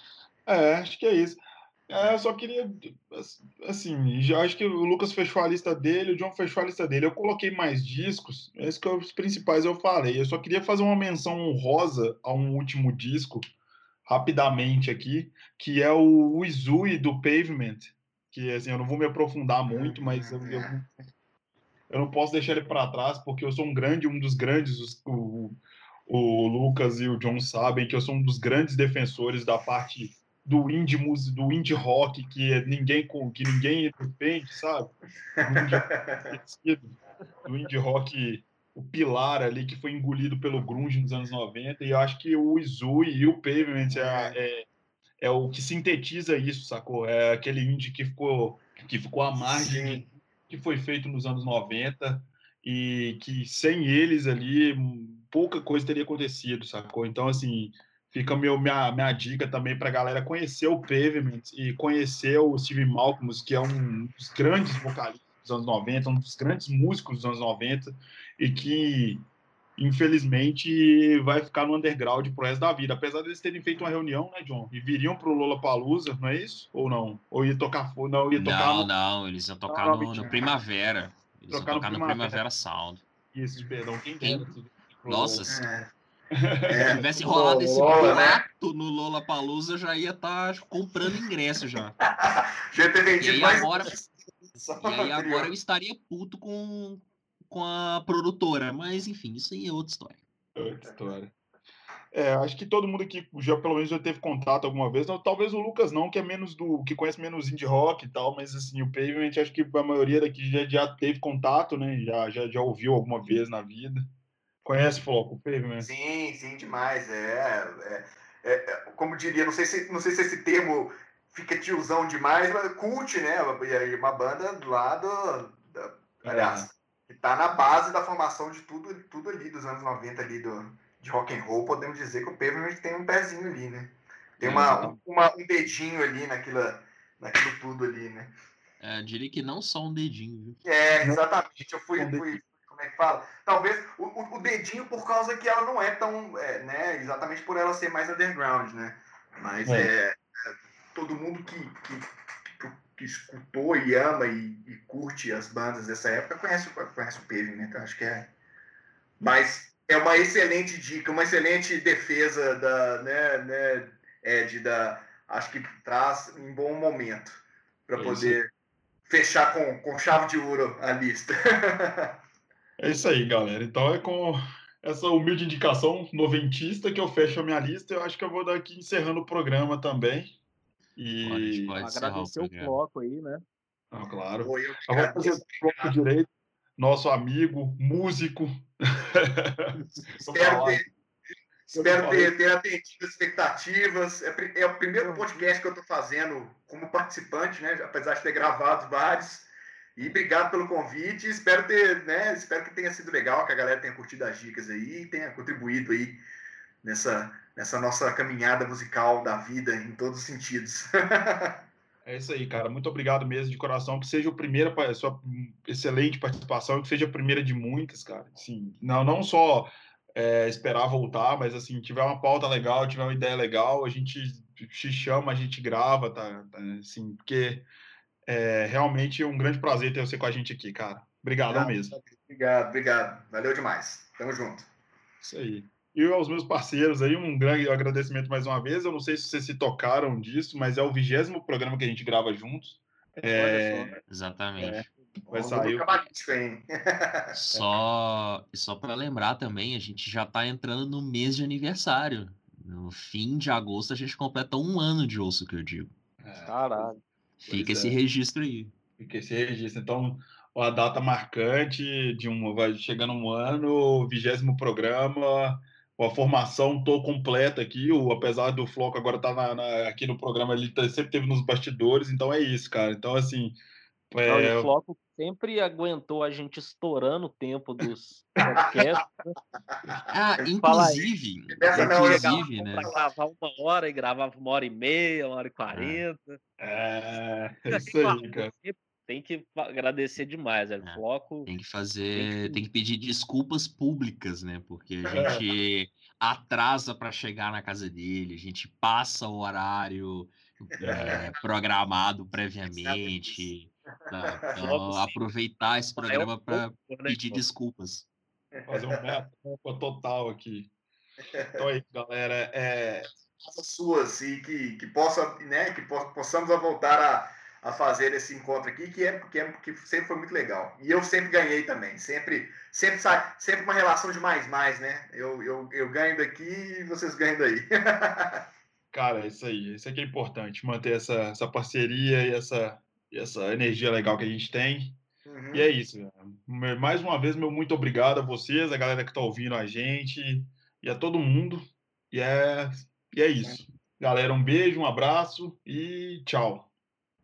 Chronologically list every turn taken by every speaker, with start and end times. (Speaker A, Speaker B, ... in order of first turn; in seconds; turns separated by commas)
Speaker A: 0.5-13.4, Speaker A: 14.1-20.9, Speaker B: 19.7-20.8, Speaker A: 21.9-44.6, Speaker B: 35.4-36.4, Speaker B: 43.9-44.4, Speaker A: 45.2-69.2, Speaker B: 49.4-50.1, Speaker A: 69.8-78.9, Speaker C: 78.3-83.0, Speaker A: 79.7-80.3, Speaker A: 81.5-82.4, Speaker A: 83.3-85.6, Speaker C: 85.1-85.6, Speaker B: 85.4-85.9, Speaker A: 86.4-87.0, Speaker B: 86.7-88.4, Speaker C: 86.8-92.0, Speaker B: 92.2-95.5, Speaker C: 93.2-94.0, Speaker C: 94.8-100.2, Speaker A: 100.5-101.3, Speaker A: 102.1-114.0, Speaker A: 114.6-115.9, Speaker B: 115.8-138.3, Speaker A: 126.2-126.7, Speaker A: 134.4-135.0, Speaker C: 138.8-140.6, Speaker B: 140.6-150.2, Speaker A: 141.9-142.4, Speaker A: 149.7-149.9, Speaker B: 150.9-152.0, Speaker B: 152.6-158.3, Speaker B: 159.2-168.5, Speaker A: 167.9-168.4, Speaker B: 169.1-172.2, Speaker A: 172.8-180.3, Speaker A: 180.9-181.8, Speaker C: 181.2-182.8, Speaker D: 181.8-183.4, Speaker A: 183.9-190.8, Speaker B: 184.4-186.0, Speaker B: 190.2-190.8, Speaker B: 191.7-206.2, Speaker A: 191.7-192.3, Speaker A: 195.0-195.3, Speaker B: 206.8-211.6, Speaker A: 212.0-227.7, Speaker A: 228.3-231.9, Speaker B: 231.5-234.7, Speaker A: 235.2-244.0, Speaker D: 243.3-243.9, Speaker C: 244.1-244.9, Speaker A: 244.6-245.8, Speaker B: 245.3-247.3, Speaker C: 247.3-255.9, Speaker A: 256.2-256.9, Speaker D: 256.4-257.0, Speaker C: 257.4-258.7, Speaker A: 257.5-258.0, Speaker A: 259.0-273.6, Speaker A: 274.1-274.7, Speaker D: 274.2-279.4, Speaker B: 279.7-280.1, Speaker C: 280.1-282.9, Speaker D: 280.6-281.1, Speaker B: 281.5-283.1, Speaker D: 281.7-286.4, Speaker C: 285.7-286.0, Speaker A: 286.6-288.5, Speaker D: 287.7-291.5, Speaker C: 290.8-308.1, Speaker D: 292.1-292.6, Speaker B: 295.1-295.4, Speaker A: 295.1-295.4, Speaker A: 300.8-301.2, Speaker B: 301.0-301.2, Speaker B: 302.8-303.4, Speaker B: 304.1-304.5, Speaker D: 304.6-305.2, Speaker D: 306.0-307.4, Speaker B: 308.6-309.0, Speaker A: 308.7-310.7, Speaker B: 311.3-311.6, Speaker A: 311.5-313.1, Speaker B: 313.4-328.4, Speaker A: 328.9-335.0, Speaker B: 335.2-335.7, Speaker A: 335.5-346.7